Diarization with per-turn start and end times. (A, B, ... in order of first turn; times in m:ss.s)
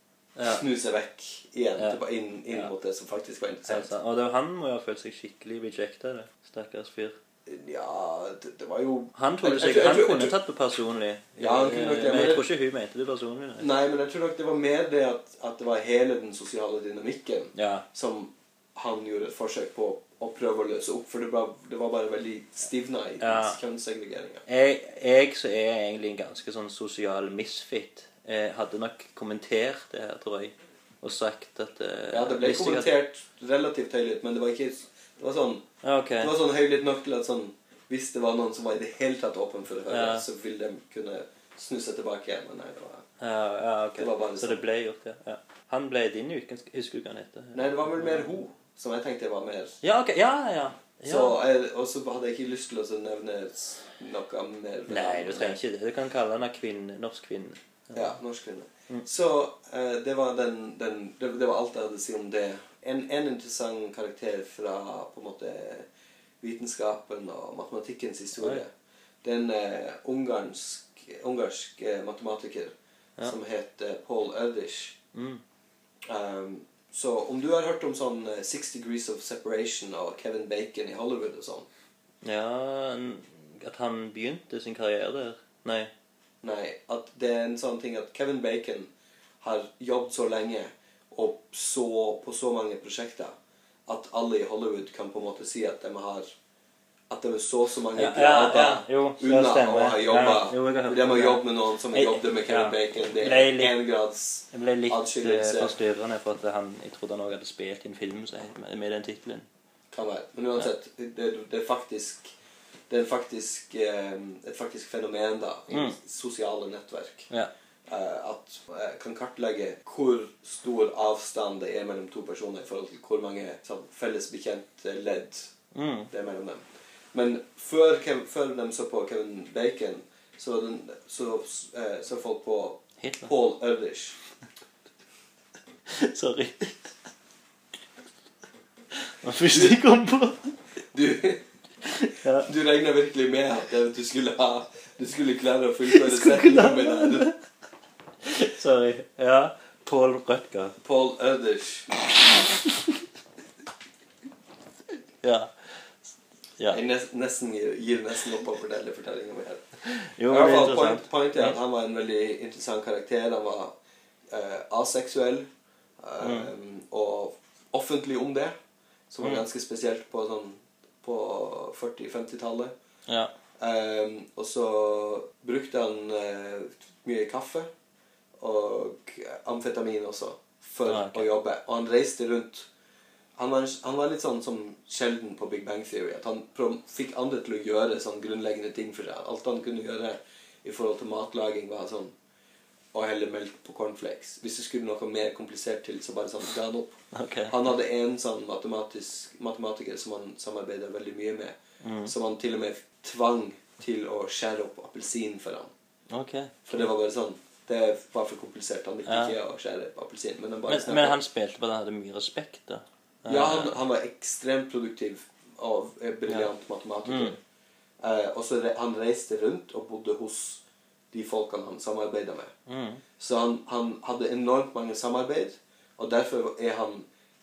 0:00.4-0:00.6 A
0:00.4-0:03.9 B
0:01.8-0:02.7 A
0:03.7-0:07.2 A
0:07.4-0:10.4 B
0:09.1-0:13.7 A
0:11.4-0:12.5 B
0:13.6-0:24.4 B
0:17.6-0:17.9 A
0:23.2-0:23.6 A
0:24.5-0:33.0 A
0:32.1-0:35.6 B
0:35.8-0:36.3 A
0:36.2-0:43.0 B
0:39.9-0:40.3 A
0:43.2-0:48.3 A
0:44.0-0:44.6 B
0:47.5-0:49.8 B
0:49.8-0:51.4 A
0:51.0-0:55.6 B
0:54.9-0:58.2 A
0:57.9-1:05.9 B
1:06.4-1:08.7 B
1:09.2-1:15.0 B
1:15.1-1:15.4 A
1:16.0-1:21.7 B
1:22.2-1:25.9 A
1:26.4-1:33.3 B
1:33.9-1:36.3 B
1:37.1-1:45.8 B
1:38.0-1:43.8 A
1:44.5-1:49.4 A
1:49.9-1:52.3 B
1:52.9-1:57.3 B
1:55.7-1:56.0 A
1:57.9-2:05.5 B
2:05.7-2:06.1 A
2:06.1-2:14.2 B
2:13.0-2:13.3 A
2:15.9-2:16.9 A
2:19.0-2:20.5 A
2:19.5-2:19.8 B
2:20.9-2:21.4 B
2:21.8-2:22.5 A
2:22.4-2:27.3 B
2:25.9-2:27.4 A
2:28.2-2:30.8 A
2:30.8-2:31.9 B
2:32.6-2:32.9 A
2:35.2-2:35.8 A
2:36.7-2:39.6 B
2:39.8-2:41.6 A
2:40.3-2:43.7 B
2:44.3-2:45.4 B
2:46.0-2:48.5 B
2:46.2-2:46.5 A
2:49.1-2:52.7 B
2:53.1-2:53.3 A
2:53.6-2:57.7 B
2:58.4-3:02.7 B
3:00.9-3:01.3 A
3:03.4-3:12.1 B
3:12.9-3:16.9 B
3:17.1-3:17.6 A
3:17.5-3:25.7 B
3:21.8-3:22.1 A
3:26.1-3:26.9 A
3:26.6-3:31.2 B
3:29.0-3:29.4 A
3:30.7-3:33.8 A
3:33.3-3:37.4 B
3:37.0-3:37.4 A
3:38.0-3:42.5 B
3:42.7-3:43.0 A
3:43.2-3:47.0 B